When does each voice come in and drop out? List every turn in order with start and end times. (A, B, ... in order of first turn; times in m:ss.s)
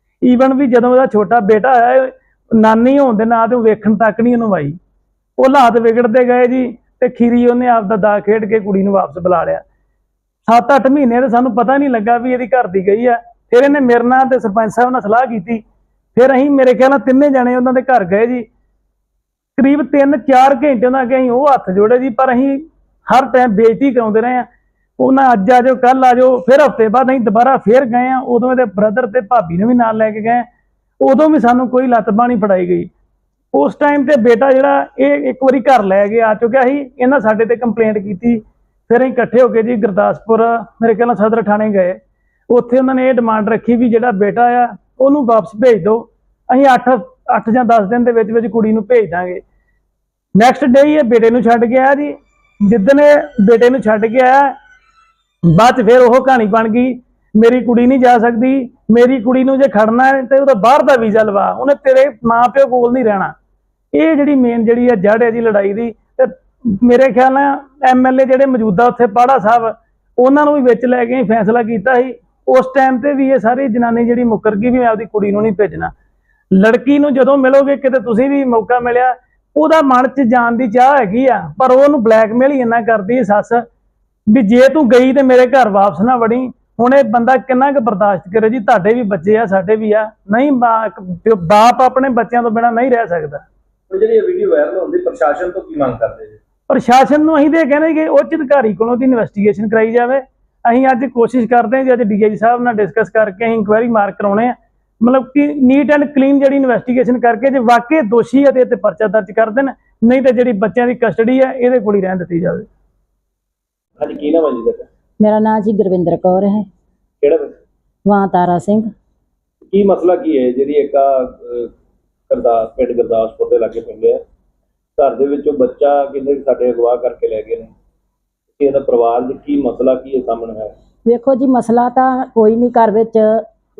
0:00.2-0:04.8 A
0:05.4-0:09.6 A
0:10.4-0:15.6 A
0:16.1-0:18.5 A
0:19.6-0:24.5 A
0:25.0-0:30.5 A
0:31.0-0:32.9 A
0:33.5-0:49.4 A
0:50.3-0:54.6 A
0:55.4-1:03.3 A
1:03.9-1:15.9 A
1:16.5-1:23.6 A
1:24.3-1:33.4 A
1:33.9-1:36.4 B
1:36.7-1:52.7 A
1:54.0-1:54.9 B
1:55.2-1:56.7 C
1:57.2-1:57.6 B
1:58.0-1:58.9 C
1:59.7-2:01.7 B
2:02.3-2:04.2 B
2:05.0-2:07.7 B
2:08.6-2:10.7 B
2:11.0-2:13.4 C